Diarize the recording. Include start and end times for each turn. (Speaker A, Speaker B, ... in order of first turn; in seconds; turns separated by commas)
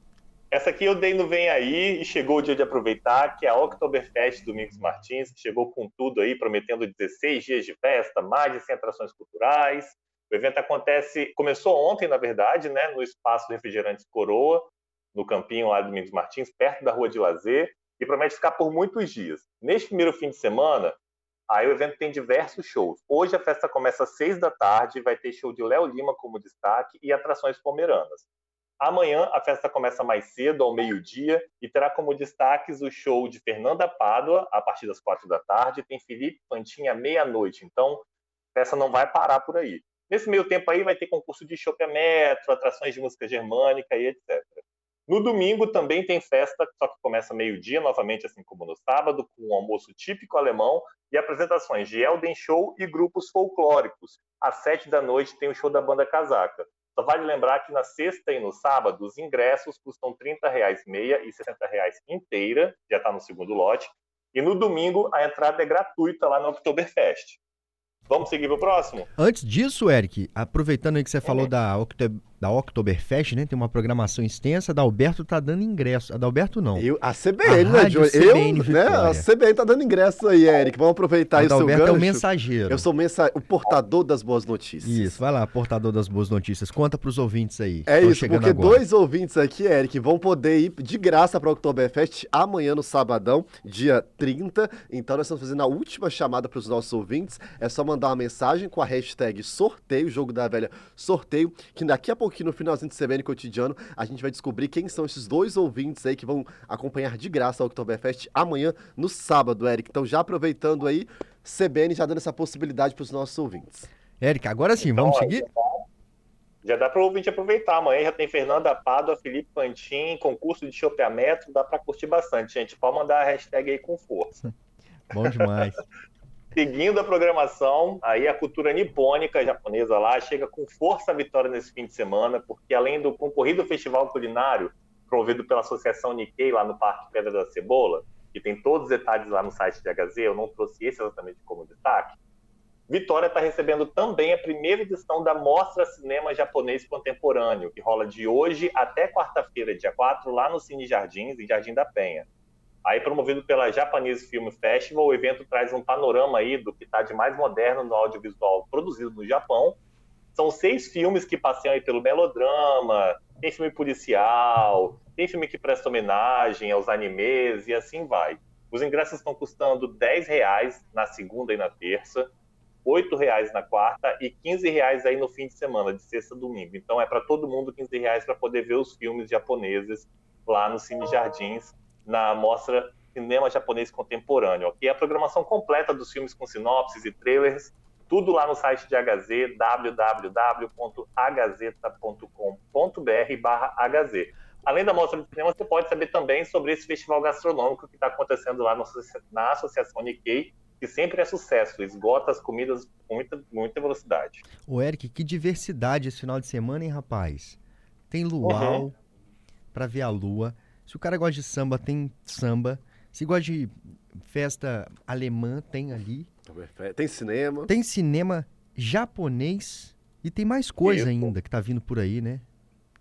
Speaker A: 0.5-21.0, Speaker A: 21.5-28.2, Speaker A: 28.8-67.4, Speaker A: 68.1-69.1, Speaker B: 69.2-76.9, Speaker C: 76.8-85.2, Speaker B: 77.4-79.3, Speaker B: 81.3-82.8, Speaker B: 84.8-88.8, Speaker C: 87.9-113.9, Speaker B: 114.2-115.5, Speaker A: 114.8-115.8, Speaker A: 116.6-124.5, Speaker B: 125.1-125.8, Speaker A: 126.5-142.2, Speaker A: 142.9-152.2, Speaker A: 152.8-159.8, Speaker A: 160.3-172.3, Speaker A: 172.8-204.4, Speaker B: 204.7-207.6, Speaker B: 208.1-208.9, Speaker A: 208.4-208.8, Speaker B: 209.7-216.3, Speaker C: 216.5-217.7, Speaker B: 217.7-222.4, Speaker A: 220.8-221.3